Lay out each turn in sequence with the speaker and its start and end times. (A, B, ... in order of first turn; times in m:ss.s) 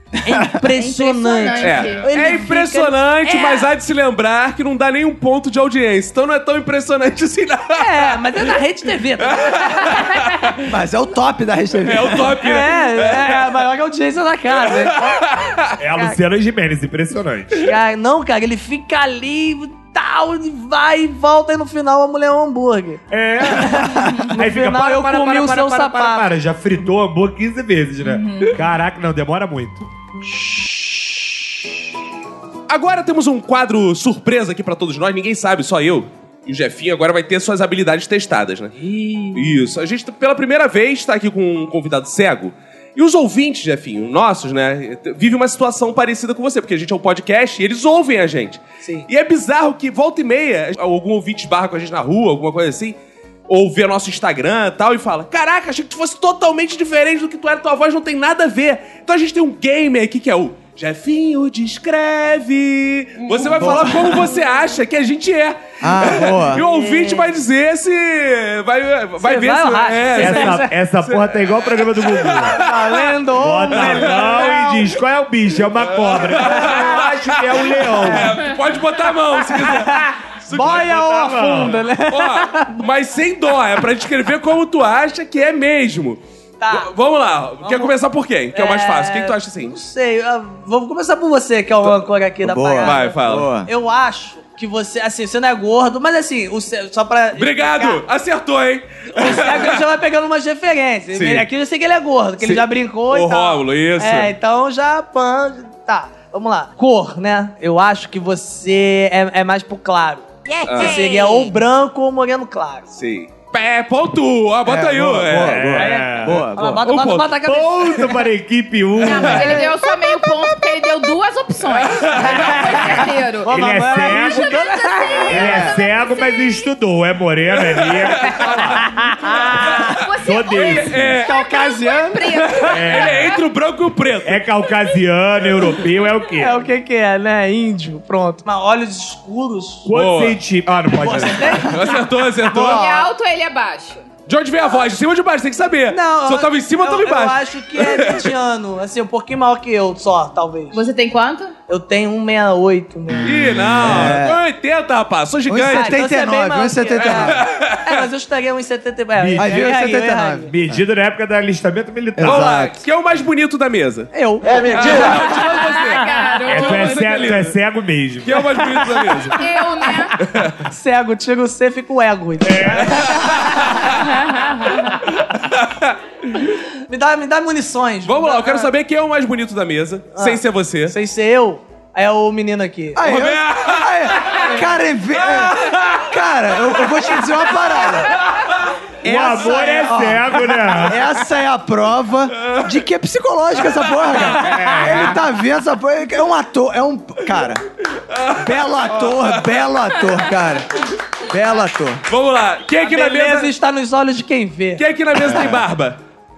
0:00.2-0:03.0 A
0:00.7-0:02.1 B
0:01.6-0:08.5 C
0:03.3-0:03.6 B
0:07.8-0:10.2 A
0:09.2-0:10.5 C
0:10.7-0:12.4 D
0:11.8-0:13.5 C
0:12.4-0:15.3 A
0:14.5-0:15.7 C
0:15.8-0:17.7 E
0:17.6-0:26.2 A
0:23.1-0:29.9 E
0:24.0-0:24.3 B
0:28.0-0:28.6 B
0:32.7-0:38.8 C
0:38.8-0:39.5 A
0:39.3-0:53.0 C
0:53.5-1:13.2 C
1:03.6-1:04.2 D
1:05.8-1:06.6 D
1:06.5-1:07.3 A
1:09.2-1:10.7 A
1:10.2-1:12.6 E
1:12.6-1:14.9 A
1:13.4-1:18.4 E
1:13.7-1:14.6 C
1:15.8-1:29.8 C
1:16.5-1:17.0 A
1:18.1-1:18.4 A
1:19.5-1:22.8 A
1:20.6-1:21.8 E
1:26.6-1:26.9 A
1:27.6-1:27.9 A
1:28.5-1:38.0 A
1:32.4-1:33.7 D
1:32.8-1:33.5 C
1:37.4-1:39.8 C
1:39.1-1:52.9 A
1:41.1-1:41.5 C
1:42.4-1:44.3 C
1:50.7-1:51.1 C
1:51.1-1:51.4 B
1:53.0-1:55.8 C
1:54.7-1:56.8 D
1:55.2-1:56.4 E
1:55.8-1:58.2 A
1:56.7-1:57.4 C
1:57.4-1:59.6 E
1:59.0-2:06.7 B
1:59.3-1:59.8 A
2:01.8-2:02.8 C
2:02.2-2:05.7 A
2:03.4-2:04.6 E
2:05.3-2:08.9 E
2:05.3-2:05.7 D
2:07.8-2:08.6 C
2:08.9-2:10.0 A
2:09.6-2:13.4 B
2:10.2-2:11.2 E
2:10.6-2:11.3 C
2:11.2-2:12.9 A
2:12.7-2:13.4 E
2:12.9-2:14.4 C
2:14.2-2:16.6 E
2:16.4-2:19.9 A
2:19.8-2:21.7 E
2:19.9-2:20.4 C
2:20.9-2:23.0 A
2:21.6-2:22.9 C
2:22.7-2:24.0 B
2:24.3-2:28.3 C
2:25.9-2:30.8 A
2:30.7-2:31.5 B
2:31.7-2:33.6 A
2:33.2-2:36.0 C
2:33.7-2:34.4 D
2:35.5-2:37.4 D
2:35.6-2:40.5 A
2:36.9-2:38.0 C
2:39.2-2:39.7 E
2:39.4-2:40.8 D
2:40.5-2:42.6 E
2:42.2-2:42.8 D
2:42.2-2:47.6 C
2:44.1-2:45.8 A
2:44.5-2:44.8 D
2:45.2-2:47.2 B
2:46.5-2:48.6 E
2:48.2-2:49.4 C
2:49.3-2:50.2 B
2:50.2-2:50.6 C
2:50.7-2:53.8 A
2:52.4-2:53.2 E
2:53.0-2:53.9 C
2:54.2-2:54.8 B
2:55.2-2:56.0 C
2:56.9-2:58.7 A
2:58.0-3:01.0 C
3:00.2-3:03.1 A
3:03.0-3:08.1 D
3:03.0-3:04.5 C
3:04.3-3:04.6 A
3:05.1-3:06.0 C
3:06.8-3:07.2 C
3:09.0-3:11.1 E
3:09.0-3:17.6 D
3:12.4-3:12.7 C
3:14.3-3:15.2 E
3:18.1-3:19.6 C
3:18.4-3:20.7 D
3:21.3-3:22.0 D
3:22.1-3:23.5 C
3:22.8-3:24.8 A
3:24.8-3:26.0 C